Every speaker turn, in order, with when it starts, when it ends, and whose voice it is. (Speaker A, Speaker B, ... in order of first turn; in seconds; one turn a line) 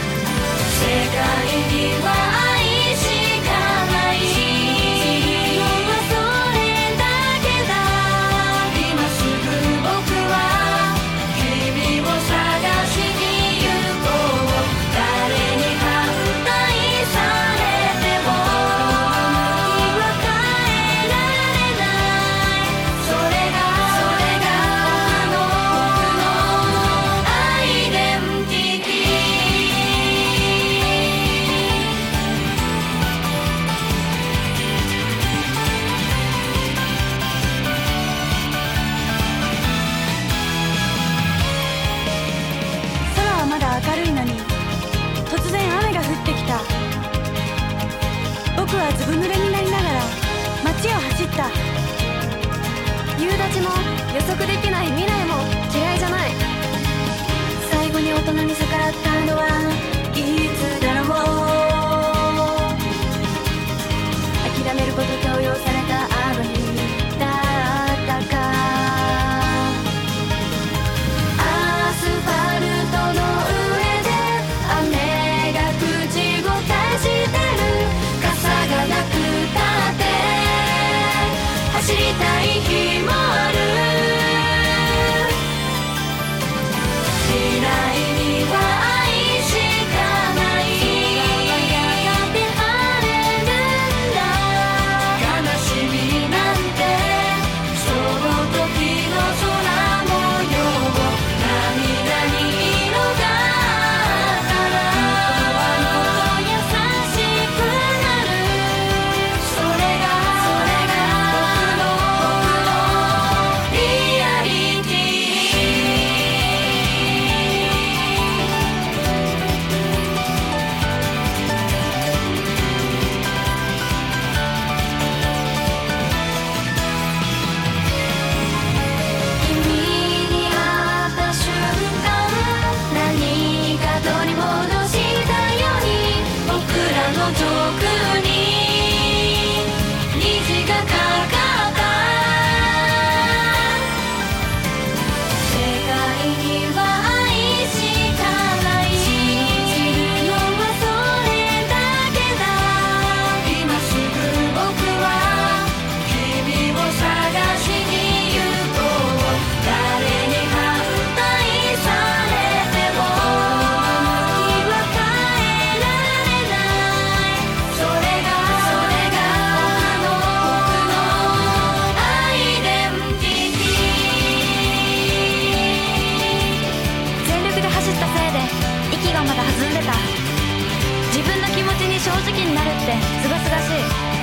Speaker A: 0.7-30.4
Speaker A: 43.1-44.5
Speaker A: 45.3-46.7
Speaker A: 48.5-51.6
Speaker A: 53.1-56.4
Speaker A: 57.6-62.8
Speaker A: 64.4-69.8
Speaker A: 71.4-85.4
Speaker A: 87.1-116.3
Speaker A: 129.4-143.9
Speaker A: 145.3-175.1
Speaker A: 177.2-180.1
Speaker A: 181.1-183.9